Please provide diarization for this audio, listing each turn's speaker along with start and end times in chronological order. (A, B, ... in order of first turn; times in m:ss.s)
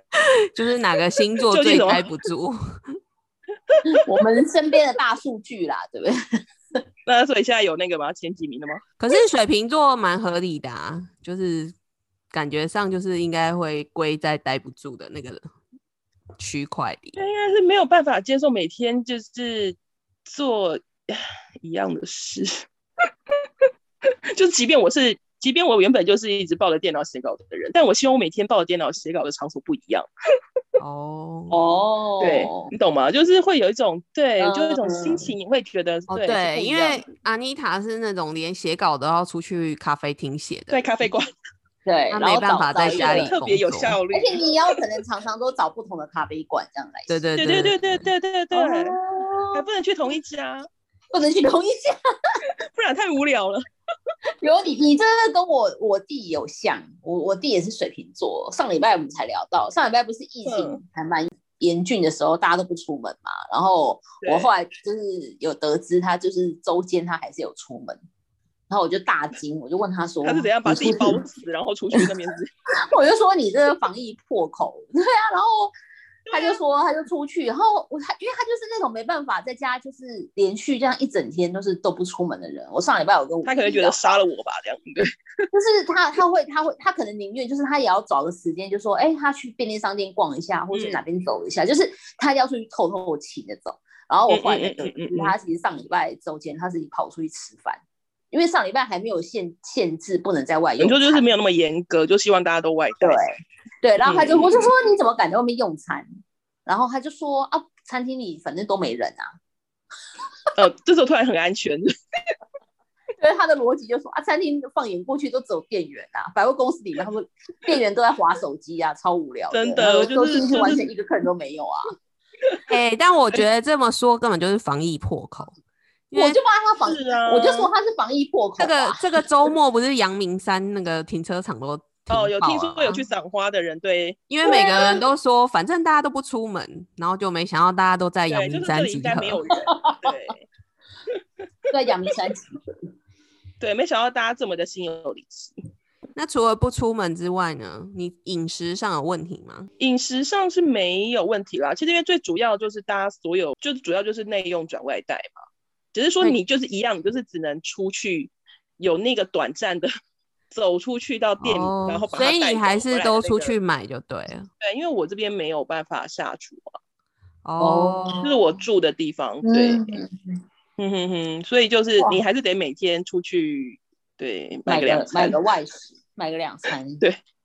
0:00.5-0:03.0 A
0:01.5-0:02.1 B
0:03.7-0:04.2 B
0:03.9-0:06.2 C
0:07.1-0:08.8 B
0:09.0-0:11.8 A
0:12.3-0:15.5 A
0:16.4-0:17.2 A
0:17.2-0:22.6 B
0:24.3-0:30.1 B
0:30.8-0:31.6 A
0:31.5-0:32.7 C
0:32.2-0:37.0 B
0:34.4-0:35.3 C
0:36.1-0:41.1 A
0:40.7-0:41.3 B
0:41.8-0:43.3 C
0:42.1-0:44.0 A
0:42.9-0:44.8 B
0:44.1-0:47.3 C
0:47.1-0:48.1 A
0:47.4-0:49.0 B
0:48.5-0:49.6 C
0:49.5-0:50.7 B
0:51.1-0:52.4 C
0:52.6-0:53.6 B
0:54.4-1:08.0 C
1:00.5-1:00.8 B
1:04.2-1:04.5 B
1:08.7-1:11.2 C
1:10.2-1:12.5 B
1:12.8-1:15.7 C
1:16.3-1:16.6 B
1:16.3-1:24.2 C
1:23.4-1:25.1 B
1:25.5-1:41.2 C
1:30.7-1:31.0 B
1:34.3-1:35.4 B
1:40.8-1:43.2 B
1:43.0-1:46.1 C
1:44.0-1:44.7 B
1:46.7-1:49.3 C
1:50.6-1:51.9 B
1:53.2-2:01.9 C
1:59.5-2:00.9 B
2:02.7-2:05.6 A
2:06.1-2:06.4 A
2:06.1-2:09.2 C
2:06.8-2:07.7 B
2:08.6-2:13.0 A
2:12.1-2:14.2 B
2:14.3-2:19.4 A
2:14.4-2:15.0 C
2:18.3-2:20.5 B
2:19.6-2:20.2 C
2:21.7-2:22.7 C
2:23.6-2:25.6 B
2:26.2-2:29.7 A
2:29.8-2:35.4 B
2:35.9-2:39.9 B
2:40.5-2:43.6 B
2:41.4-2:44.5 A
2:44.6-2:46.8 B
2:47.4-2:48.2 A
2:47.6-2:48.3 C
2:48.2-2:50.0 B
2:49.4-2:50.4 C
2:50.8-2:55.4 B
2:54.7-2:57.0 C